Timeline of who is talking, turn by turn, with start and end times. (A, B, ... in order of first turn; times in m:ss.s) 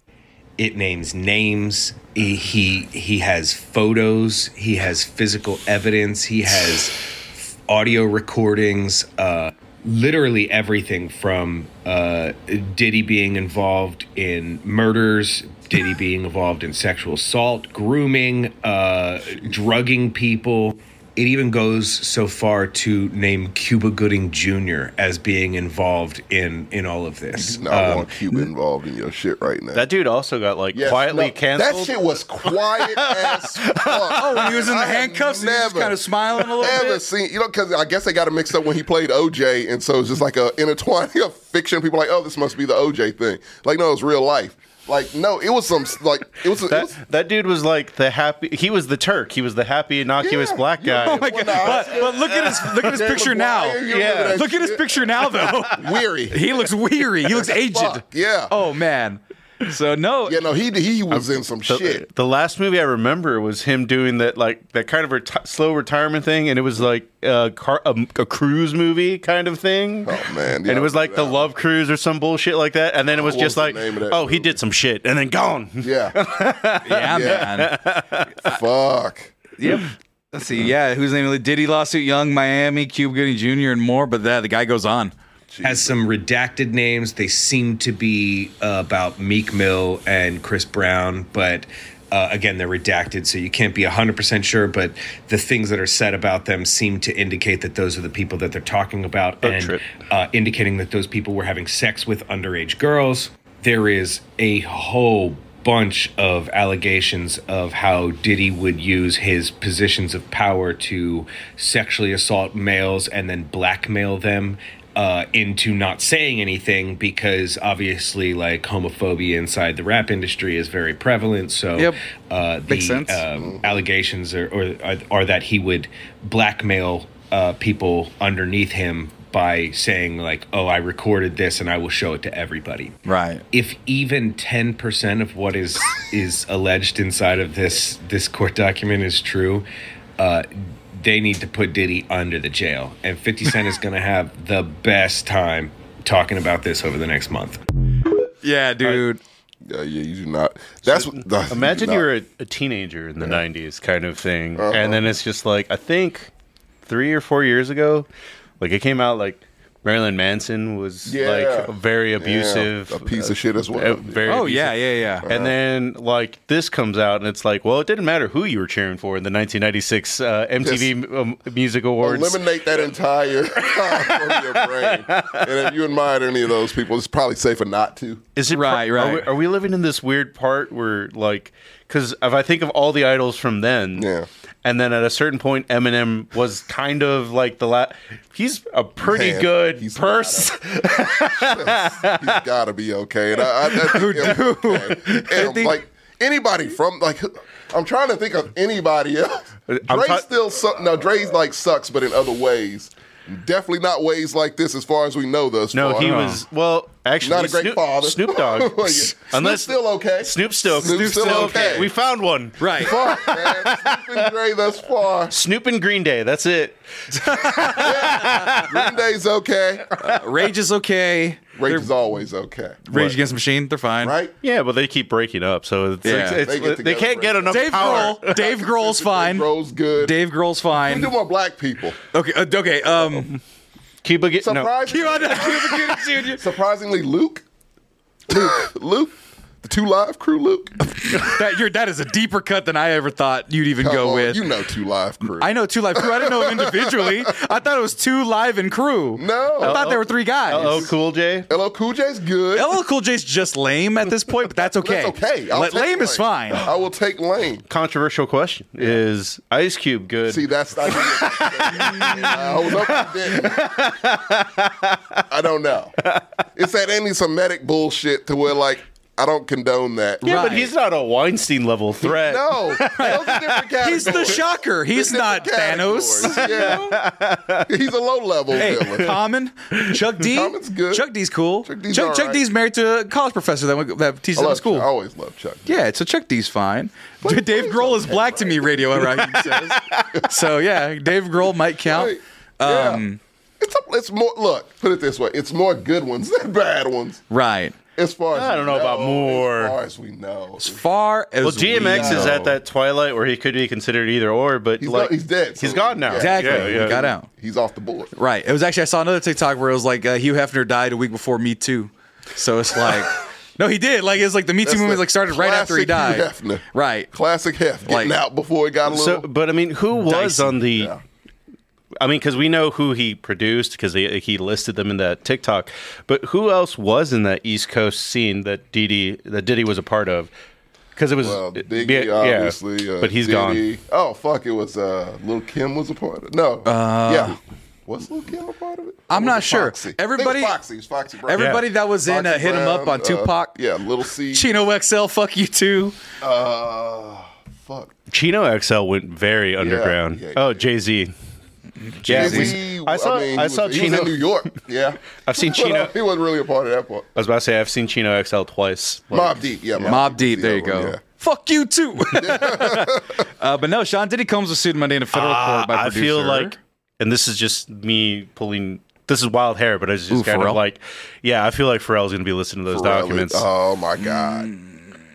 0:00.6-0:28.1 A
0:27.3-0:29.8 B
0:29.7-0:34.3 C
0:30.7-0:47.0 B
0:34.1-0:37.0 D
0:46.6-0:52.7 C
0:50.2-0:56.6 B
0:51.0-0:53.8 D
0:53.9-0:54.4 C
0:54.3-1:00.4 D
0:57.3-0:58.5 B
1:00.2-1:02.0 B
1:01.7-1:18.4 C
1:10.0-1:11.4 B
1:13.1-1:14.6 B
1:15.8-1:16.2 B
1:16.8-1:17.7 D
1:17.0-1:17.5 B
1:18.4-1:19.3 B
1:19.6-1:25.1 D
1:25.5-1:26.0 B
1:25.6-2:13.0 A
1:39.4-1:39.8 C
2:02.7-2:03.2 D
2:03.4-2:03.6 B
2:13.0-2:13.4 D
2:13.5-2:19.6 A
2:20.2-2:27.6 A
2:28.4-2:29.2 D
2:29.6-2:32.0 B
2:30.9-2:36.3 C
2:34.6-2:35.0 B
2:36.8-2:38.1 C
2:38.6-2:52.8 C
2:41.0-2:44.4 B
2:44.3-2:45.2 D
2:45.2-2:45.5 B
2:50.6-2:50.9 B
2:52.0-2:58.2 B
2:53.6-2:55.5 C
2:58.4-3:04.1 C
2:58.5-2:59.3 D
3:04.0-3:04.3 B
3:04.6-3:12.4 C
3:09.0-3:26.3 B
3:13.8-3:15.8 D
3:19.7-3:20.2 C
3:25.7-3:34.3 C
3:26.0-3:26.4 D
3:27.2-3:31.9 B
3:30.8-3:31.8 D
3:32.6-3:33.0 D
3:32.8-3:35.3 B
3:35.3-3:38.8 C
3:37.1-3:37.9 D
3:37.7-3:39.9 B
3:40.0-3:41.9 D
3:41.6-3:42.8 B
3:42.9-3:44.1 D
3:44.0-3:44.3 B
3:44.4-3:48.4 C
3:46.0-3:46.4 D
3:46.1-3:50.2 B
3:47.5-3:49.5 D
3:50.0-3:51.1 D
3:50.8-3:52.0 B
3:52.1-3:53.3 D
3:54.0-3:54.7 C
3:54.4-3:57.4 B
3:54.9-3:56.4 D
3:58.3-4:00.7 B
4:00.8-4:04.4 D
4:03.8-4:07.3 B
4:05.3-4:10.9 D
4:09.2-4:10.0 B
4:09.6-4:11.5 C
4:10.5-4:10.9 B
4:11.5-4:12.7 B
4:12.5-4:16.7 D
4:14.8-4:17.6 B
4:17.7-4:25.2 C
4:20.3-4:23.8 B
4:21.7-4:22.7 D
4:25.3-4:26.0 B
4:26.6-4:30.4 B
4:30.2-4:30.7 D
4:30.2-4:34.4 C
4:32.0-4:37.0 B
4:33.8-4:36.9 D
4:36.3-4:37.6 C
4:37.7-4:39.1 B
4:38.6-4:44.9 D
4:40.2-4:41.1 B
4:41.6-4:42.4 B
4:44.3-4:45.8 B
4:45.6-4:53.2 D
4:47.2-4:49.4 B
4:49.3-4:50.2 C
4:51.8-4:53.0 B
4:53.6-4:57.2 B
4:57.3-4:57.7 D
4:58.0-5:00.8 B
4:58.3-4:59.8 C
5:00.6-5:02.5 D
5:01.4-5:07.0 C
5:01.7-5:02.5 B
5:04.8-5:08.1 B
5:06.2-5:07.3 D
5:08.2-5:17.1 D
5:14.6-5:19.3 B
5:17.8-5:18.1 D
5:18.9-5:20.9 C
5:20.0-5:20.5 D
5:22.0-5:30.3 C
5:31.0-5:33.6 C
5:31.2-5:44.6 B
5:36.6-5:37.4 D
5:39.1-5:40.6 D
5:41.2-5:43.5 D
5:41.3-5:41.6 C
5:44.3-5:46.0 D
5:46.2-5:47.9 B
5:48.1-5:51.1 C
5:49.6-5:50.6 B
5:51.9-5:52.5 D
5:52.0-5:54.4 C
5:52.1-5:57.1 B
5:55.2-5:55.9 C
5:57.2-5:59.9 C
5:59.1-6:01.0 B
5:59.8-6:06.6 D
6:02.1-6:03.2 B
6:05.1-6:13.4 C
6:10.1-6:10.6 D
6:12.7-6:14.5 B
6:14.0-6:14.9 D